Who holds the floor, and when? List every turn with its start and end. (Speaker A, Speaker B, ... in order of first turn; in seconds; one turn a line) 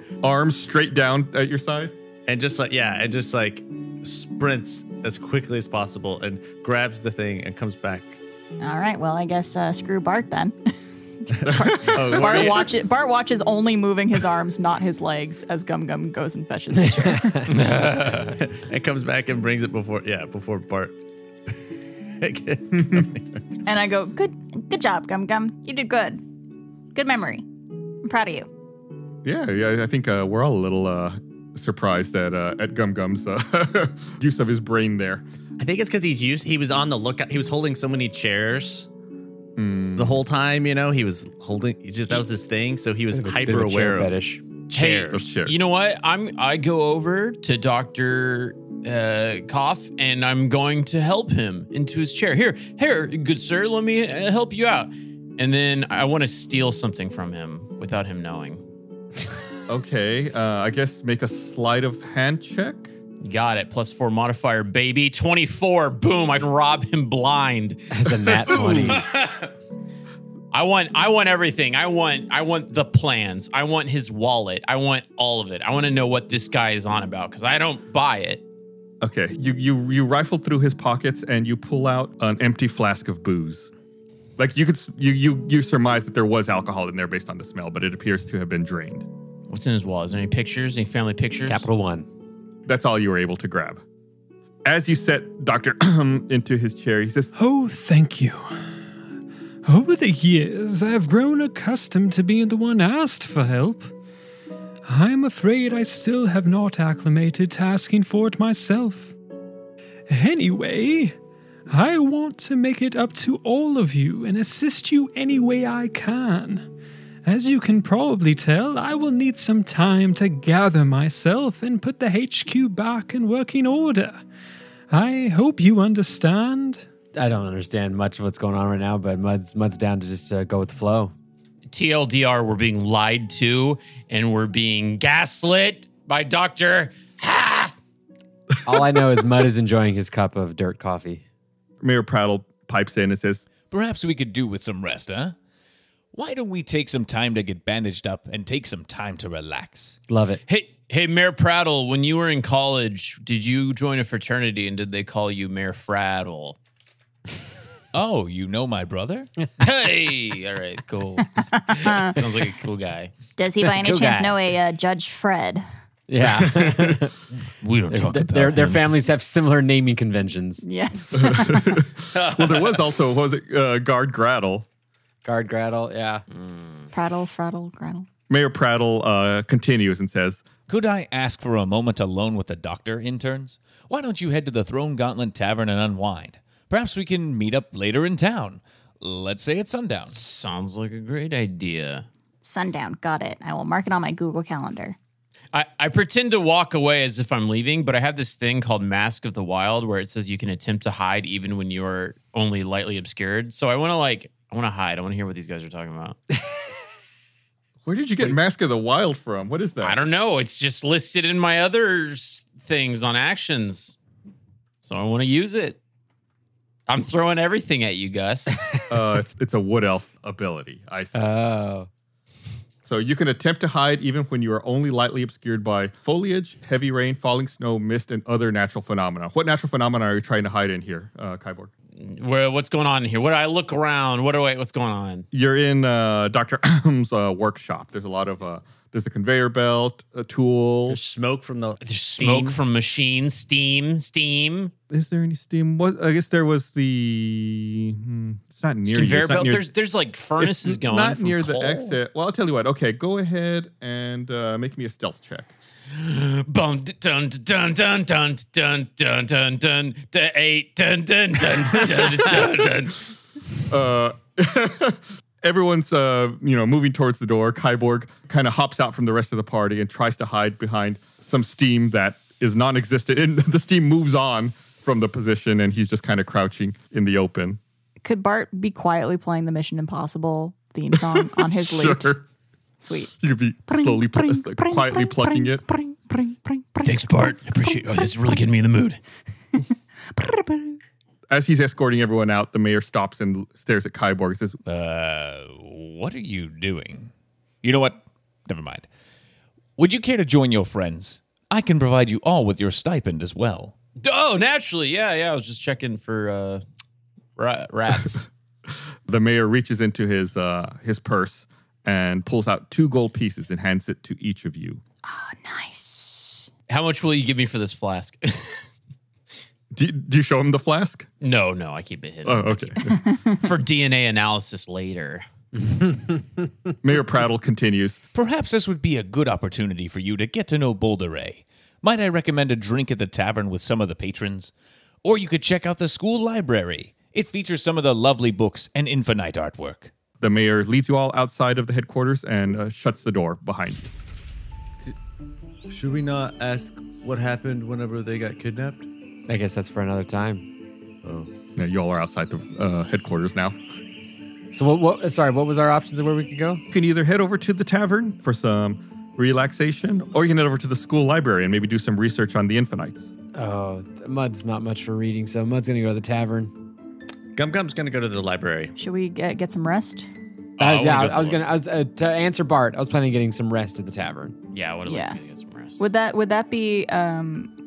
Speaker A: 0.2-1.9
Speaker B: 2.3-8.2
Speaker C: 8.6-10.7
Speaker C: 11.3-17.5
Speaker A: 11.5-12.6
Speaker B: 11.8-12.7
Speaker B: 17.5-20.9
Speaker B: 22.2-23.2
Speaker C: 23.7-26.2
Speaker C: 26.9-27.5
Speaker C: 28.0-28.5
Speaker A: 29.2-35.2
Speaker B: 35.6-38.9
Speaker A: 39.6-40.2
Speaker B: 40.0-45.3
Speaker D: 43.1-44.4
Speaker E: 44.8-58.6
Speaker A: 45.0-45.6
Speaker A: 59.7-62.9
Speaker E: 63.2-69.5
Speaker D: 67.9-69.0
Speaker E: 70.5-78.4
Speaker A: 79.0-83.7
Speaker A: 84.4-89.1
Speaker E: 89.5-91.7
Speaker D: 91.5-92.1
Speaker A: 92.7-93.8
Speaker A: 94.6-97.3
Speaker F: 97.3-98.5
Speaker F: 99.6-103.9
Speaker F: 104.9-109.1
Speaker F: 110.1-111.1
Speaker F: 111.7-116.7
Speaker F: 117.2-124.2
Speaker F: 124.9-126.8
Speaker D: 127.1-131.1
Speaker E: 131.7-137.7
Speaker D: 138.6-141.2
Speaker A: 141.8-143.5
Speaker G: 143.7-145.4
Speaker G: 146.1-150.0
Speaker D: 150.1-150.4
Speaker E: 150.5-156.6
Speaker G: 157.9-159.3
Speaker E: 159.6-161.3
Speaker C: 161.5-162.2
Speaker E: 161.9-163.1
Speaker C: 163.4-165.6
Speaker D: 163.6-164.4
Speaker D: 166.1-167.1
Speaker A: 166.6-166.9
Speaker E: 167.6-168.8
Speaker D: 167.9-170.6
Speaker C: 170.6-171.8
Speaker A: 171.1-174.7
Speaker D: 175.2-176.2
Speaker C: 176.9-178.1
Speaker A: 178.3-180.5
Speaker G: 180.7-190.2
Speaker E: 190.1-192.1
Speaker C: 192.4-195.0
Speaker E: 195.5-206.2
Speaker A: 207.9-210.0
Speaker E: 209.8-214.0
Speaker E: 214.8-215.8
Speaker E: 216.9-218.6
Speaker A: 218.9-221.2
Speaker D: 221.1-221.9
Speaker A: 222.8-231.7
Speaker E: 232.0-235.3
Speaker A: 235.3-241.0
Speaker B: 240.8-242.6
Speaker E: 241.8-244.7
Speaker A: 244.9-249.6
Speaker E: 248.8-252.0
Speaker A: 250.4-255.5
Speaker E: 255.9-263.1
Speaker A: 263.7-277.6
Speaker C: 278.0-282.2
Speaker A: 281.0-282.2
Speaker C: 282.8-283.1
Speaker A: 283.2-285.6
Speaker C: 283.7-286.9
Speaker E: 286.8-289.0
Speaker C: 290.2-290.7
Speaker A: 291.3-294.6
Speaker G: 294.6-297.1
Speaker G: 297.6-298.9
Speaker G: 299.8-303.7
Speaker E: 304.0-306.6
Speaker E: 307.4-308.3
Speaker A: 309.1-314.8
Speaker C: 315.1-316.5
Speaker E: 316.7-318.7
Speaker A: 319.7-321.1
Speaker E: 321.2-325.2
Speaker A: 322.2-322.9
Speaker D: 325.6-326.5
Speaker A: 326.8-328.0
Speaker G: 328.1-334.5
Speaker G: 335.0-339.9
Speaker A: 340.2-343.9
Speaker H: 345.7-348.9
Speaker D: 349.3-350.5
Speaker H: 351.0-351.3
Speaker A: 351.6-353.6
Speaker D: 354.5-356.6
Speaker A: 356.7-363.1
Speaker D: 363.3-366.5
Speaker B: 367.4-368.7
Speaker C: 368.8-370.1
Speaker E: 370.6-371.4
Speaker D: 370.6-374.4
Speaker E: 374.5-375.8
Speaker C: 374.9-375.2
Speaker C: 375.8-377.5